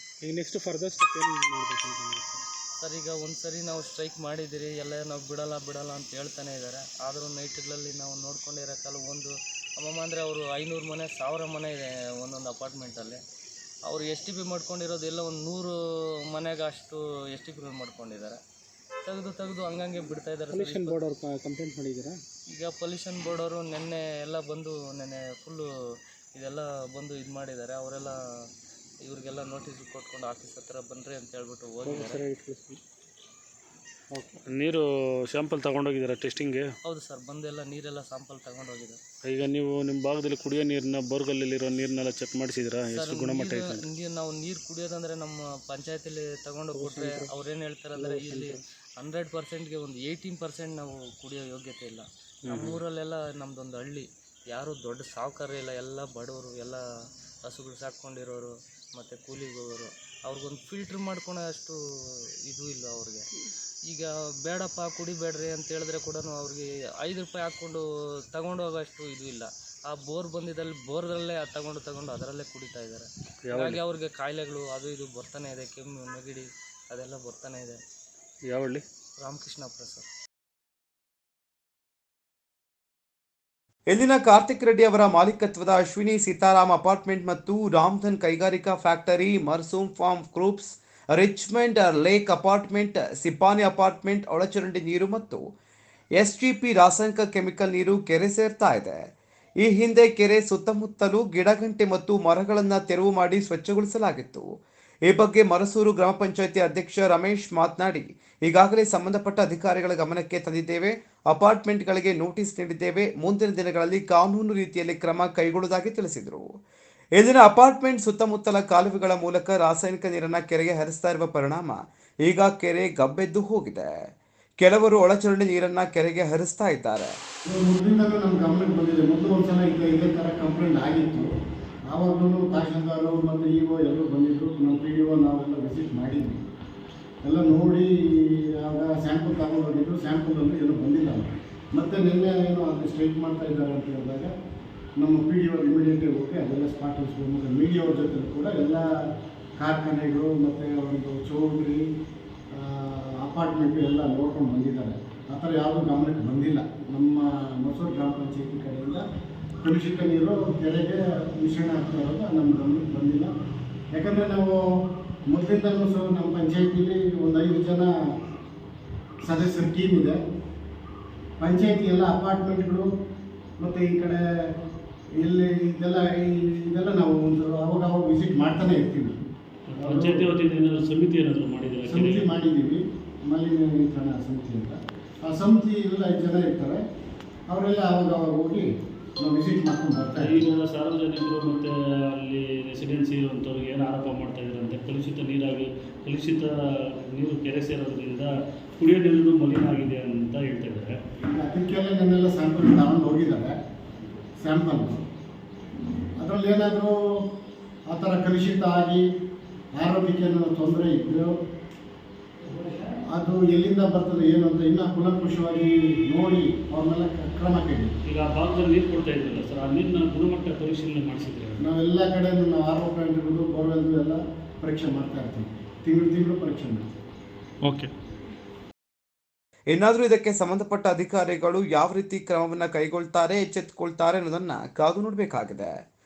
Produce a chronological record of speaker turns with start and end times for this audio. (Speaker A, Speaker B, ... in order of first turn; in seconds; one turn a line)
Speaker A: 0.2-2.4
Speaker B: 2.8-13.2
Speaker B: 13.9-15.8
Speaker B: 16.3-18.4
Speaker B: 19.0-21.1
Speaker A: 20.5-22.2
Speaker B: 22.5-25.6
Speaker B: 26.3-28.1
Speaker B: 29.1-32.2
Speaker A: 31.8-32.8
Speaker A: 34.1-34.4
Speaker C: 34.5-36.7
Speaker B: 36.8-39.0
Speaker C: 39.2-43.8
Speaker B: 42.9-56.8
Speaker A: 46.7-47.3
Speaker A: 47.9-48.6
Speaker A: 52.5-52.8
Speaker B: 57.4-61.8
Speaker B: 62.5-63.3
Speaker B: 63.9-77.8
Speaker C: 73.5-73.8
Speaker C: 78.4-78.8
Speaker B: 79.2-80.0
Speaker D: 83.9-95.4
Speaker D: 96.2-99.0
Speaker D: 99.6-104.5
Speaker D: 105.1-116.5
Speaker D: 117.2-123.9
Speaker D: 124.6-127.1
Speaker E: 127.5-131.2
Speaker E: 131.9-136.4
Speaker E: 137.2-144.3
Speaker E: 145.0-148.8
Speaker E: 149.6-151.8
Speaker E: 152.5-159.0
Speaker E: 159.6-163.3
Speaker E: 163.9-164.6
Speaker E: 165.3-167.9
Speaker E: 169.2-170.2
Speaker E: 171.4-172.9
Speaker E: 173.6-174.2
Speaker E: 175.2-179.1
Speaker C: 179.7-182.2
Speaker E: 179.8-180.3
Speaker E: 181.8-186.8
Speaker E: 187.5-188.7
Speaker E: 189.2-190.4
Speaker C: 190.2-196.5
Speaker C: 197.1-200.9
Speaker E: 201.2-203.5
Speaker E: 204.4-205.0
Speaker E: 206.2-207.2
Speaker E: 207.9-209.0
Speaker E: 209.8-211.3
Speaker E: 213.1-217.9
Speaker C: 218.1-221.6
Speaker E: 221.6-226.8
Speaker C: 227.6-227.9
Speaker D: 229.7-235.7